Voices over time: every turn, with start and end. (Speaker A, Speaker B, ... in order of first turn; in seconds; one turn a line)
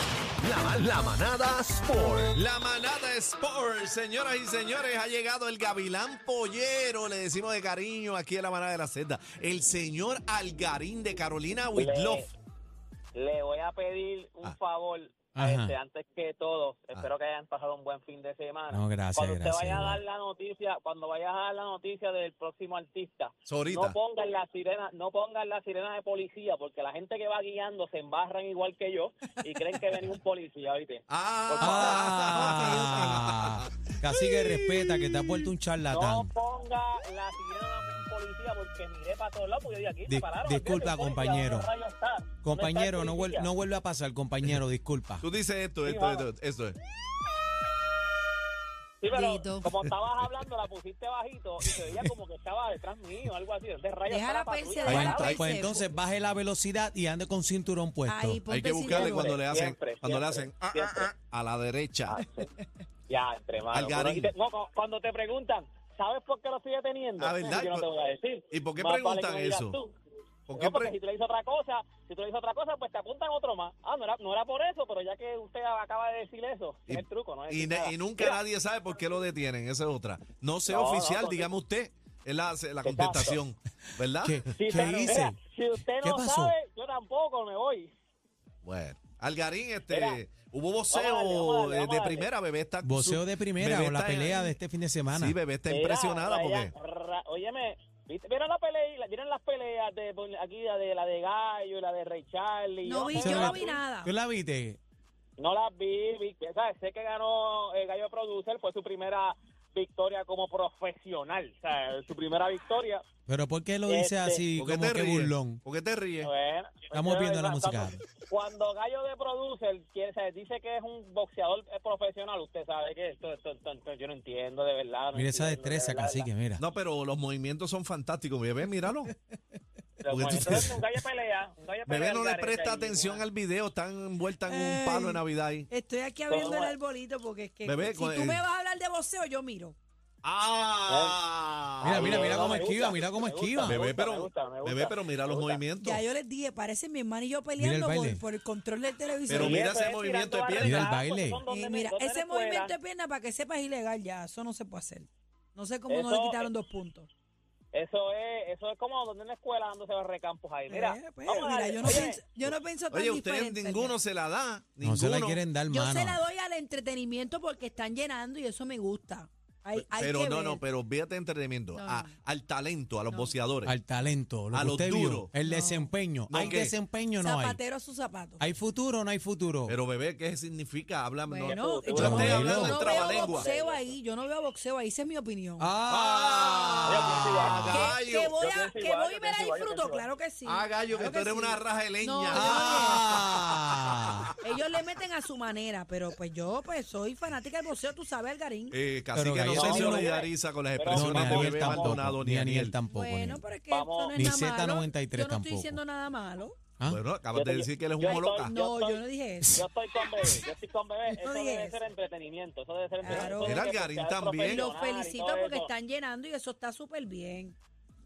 Speaker A: 0.4-2.3
Speaker B: 2.3-12.2
Speaker C: 11.7-12.3
Speaker C: 13.1-32.7
Speaker D: 15.3-15.7
Speaker D: 18.7-20.0
Speaker B: 23.4-24.0
Speaker B: 31.1-35.5
Speaker D: 31.6-36.3
Speaker C: 35.9-43.5
Speaker D: 40.1-41.7
Speaker D: 42.4-45.2
Speaker B: 45.2-46.8
Speaker C: 45.8-46.3
Speaker C: 49.0-55.5
Speaker E: 49.1-49.7
Speaker E: 54.1-55.8
Speaker D: 54.9-58.4
Speaker B: 54.9-55.6
Speaker E: 58.0-59.3
Speaker B: 58.5-62.2
Speaker C: 58.9-61.1
Speaker C: 62.1-62.5
Speaker C: 63.1-69.9
Speaker B: 63.7-64.3
Speaker B: 67.2-67.8
Speaker B: 68.5-69.8
Speaker B: 70.5-70.9
Speaker C: 70.5-78.4
Speaker B: 76.9-84.6
Speaker C: 80.7-81.5
Speaker C: 82.8-83.4
Speaker D: 84.2-85.4
Speaker C: 84.5-87.9
Speaker D: 86.0-86.5
Speaker B: 88.6-94.5
Speaker C: 89.9-90.2
Speaker C: 90.9-92.3
Speaker D: 92.8-95.4
Speaker B: 95.1-96.7
Speaker C: 95.7-103.8
Speaker E: 102.8-104.1
Speaker D: 103.2-103.5
Speaker D: 104.0-104.8
Speaker C: 105.4-113.0
Speaker D: 113.3-115.6
Speaker C: 113.9-114.5
Speaker B: 114.6-116.3
Speaker C: 116.2-126.3
Speaker D: 116.9-118.0
Speaker D: 125.1-126.6
Speaker B: 126.6-129.1
Speaker C: 130.0-133.2
Speaker B: 130.1-130.8
Speaker B: 131.9-135.7
Speaker E: 134.4-139.8
Speaker C: 136.3-136.8
Speaker B: 137.6-138.4
Speaker B: 140.2-142.7
Speaker C: 140.9-141.2
Speaker D: 141.8-143.8
Speaker C: 141.8-145.6
Speaker B: 143.6-146.0
Speaker E: 145.8-149.7
Speaker D: 147.6-148.2
Speaker B: 149.3-150.9
Speaker C: 149.3-152.7
Speaker D: 150.6-151.4
Speaker E: 151.4-157.1
Speaker C: 155.9-156.5
Speaker C: 157.7-162.2
Speaker E: 160.7-163.9
Speaker B: 162.5-165.4
Speaker D: 164.8-166.2
Speaker E: 165.7-170.6
Speaker B: 169.9-173.8
Speaker E: 171.7-172.1
Speaker D: 173.6-177.6
Speaker B: 174.5-175.3
Speaker E: 175.4-176.7
Speaker B: 176.3-176.7
Speaker E: 177.2-178.4
Speaker D: 178.4-179.8
Speaker B: 179.7-183.5
Speaker E: 181.3-185.7
Speaker C: 181.4-183.9
Speaker D: 181.9-182.8
Speaker D: 185.6-187.4
Speaker B: 185.9-188.3
Speaker C: 186.8-190.1
Speaker E: 187.7-193.2
Speaker B: 190.4-194.0
Speaker D: 192.3-194.3
Speaker E: 194.4-198.8
Speaker B: 198.7-202.7
Speaker D: 199.1-200.1
Speaker C: 199.5-202.0
Speaker D: 200.9-203.4
Speaker E: 202.9-206.7
Speaker C: 203.7-204.3
Speaker D: 204.1-205.8
Speaker B: 206.9-208.5
Speaker C: 207.3-215.7
Speaker E: 208.0-209.6
Speaker E: 211.1-211.8
Speaker E: 213.0-213.6
Speaker B: 213.1-214.7
Speaker E: 214.4-217.6